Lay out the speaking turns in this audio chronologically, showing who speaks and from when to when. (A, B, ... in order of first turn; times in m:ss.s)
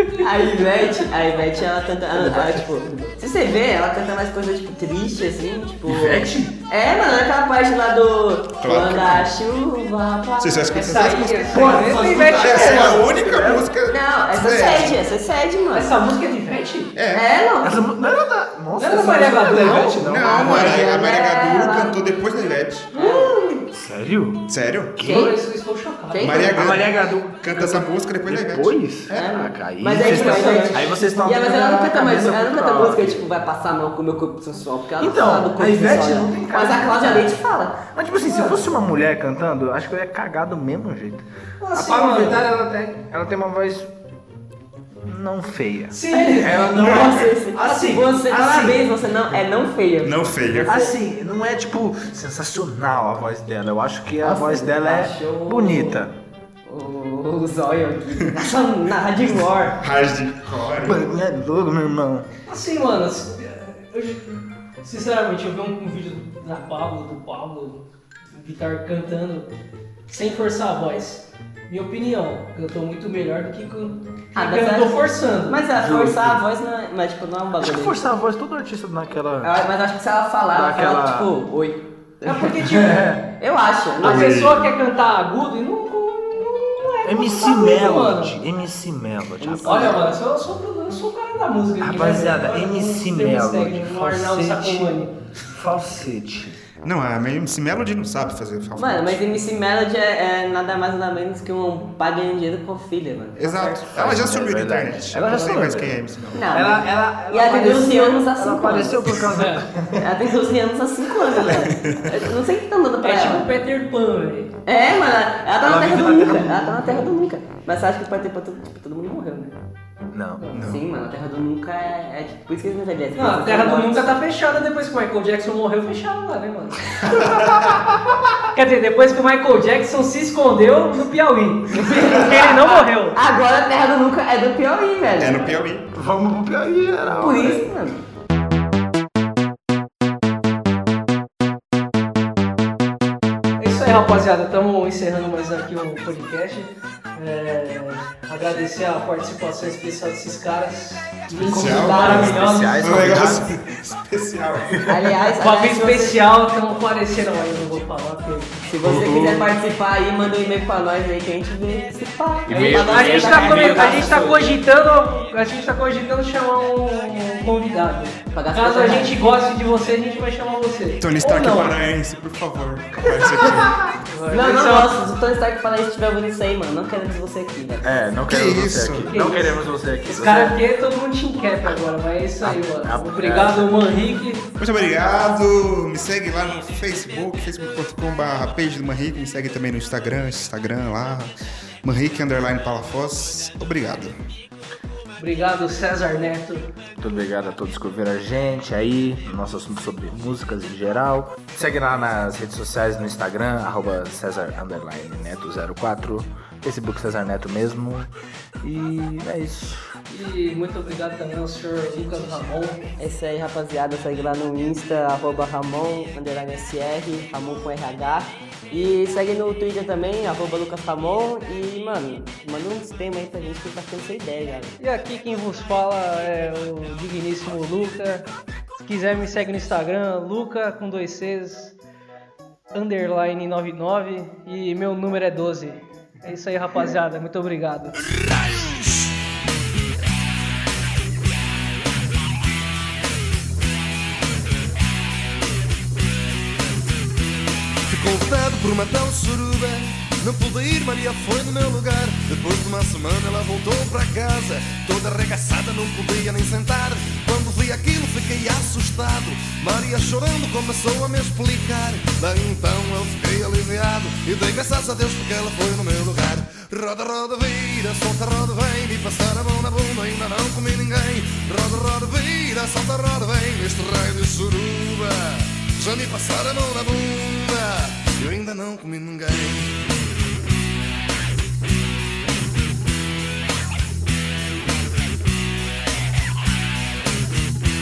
0:00.2-0:11.7 A
0:02.1-0:03.1 B
0:05.9-0:06.6 B
0:08.6-0:09.3 C
0:10.4-0:11.7 C
0:10.7-0:13.0 D
0:11.5-0:13.7 B
0:12.2-0:15.0 C
0:13.9-0:16.0 A
0:15.7-0:16.9 D
0:16.9-0:17.3 C
0:17.1-0:17.8 A
0:17.6-0:21.0 B
0:18.8-0:20.0 D
0:20.0-0:22.9 C
0:20.2-0:21.9 A
0:22.9-0:23.4 D
0:22.9-0:23.6 A
0:23.7-0:25.3 B
0:24.5-0:25.0 C
0:25.0-0:25.3 A
0:25.0-0:26.5 D
0:26.1-0:26.8 A
0:26.2-0:29.3 C
0:26.5-0:33.2 B
0:29.1-0:37.8 A
0:29.9-0:31.0 D
0:35.0-0:37.3 B
0:37.9-0:43.9 B
0:38.3-0:38.6 D
0:41.6-0:42.4 D
0:45.0-0:48.8 B
0:45.9-0:46.5 D
0:46.1-0:50.3 A
0:47.6-0:48.0 D
0:50.0-0:50.9 C
0:50.6-0:56.1 B
0:54.2-0:56.0 A
0:56.6-0:59.8 A
0:59.7-1:01.0 C
1:00.8-1:02.3 B
1:02.5-1:04.3 D
1:04.8-1:07.8 D
1:08.3-1:09.5 D
1:10.1-1:15.6 D
1:14.3-1:18.1 A
1:15.7-1:16.4 B
1:17.6-1:19.6 B
1:19.4-1:22.5 A
1:20.5-1:21.3 B
1:22.2-1:23.0 D
1:22.6-1:23.2 B
1:23.3-1:24.4 A
1:24.0-1:28.4 D
1:24.0-1:24.6 C
1:27.0-1:30.0 B
1:29.4-1:30.0 A
1:29.6-1:35.2 D
1:31.8-1:34.9 B
1:35.5-1:36.6 B
1:36.8-1:39.2 C
1:38.8-1:44.0 A
1:43.4-1:46.5 C
1:43.9-1:46.0 B
1:46.3-1:49.2 A
1:46.5-1:50.1 B
1:49.3-1:49.7 D
1:49.9-1:53.5 A
1:51.4-1:52.2 C
1:53.0-1:54.5 D
1:54.6-1:59.5 A
1:55.6-1:57.0 B
2:00.1-2:00.4 B
2:00.5-2:00.8 C
2:00.5-2:04.2 A
2:03.1-2:07.3 D
2:07.1-2:07.7 C
2:07.6-2:08.2 B
2:08.5-2:13.2 D
2:11.7-2:15.5 A
2:15.2-2:15.8 C
2:15.9-2:17.7 B
2:17.0-2:18.0 A
2:23.6-2:33.2 D
2:31.4-2:32.5 A
2:31.4-2:34.9 C
2:31.8-2:33.5 B
2:34.9-2:36.2 A
2:35.4-2:38.6 D
2:38.6-2:44.4 A
2:38.8-2:39.5 B
2:42.5-2:44.5 B
2:42.5-2:51.8 D
2:48.3-2:49.1 A
2:51.0-2:53.8 C
2:54.1-2:54.9 D
2:54.3-2:57.9 A
2:57.8-3:00.6 B
2:58.3-2:59.1 C
2:59.1-3:04.4 D
3:02.4-3:03.7 B
3:04.6-3:14.1 C
3:15.2-3:16.7 D
3:17.0-3:28.1 B
3:28.6-3:29.9 B
3:30.1-3:32.9 D
3:33.0-3:44.8 A
3:44.8-3:48.2 D
3:48.8-3:51.7 D
3:52.7-3:58.0 D
3:58.0-3:59.1 E
4:07.9-4:39.9 E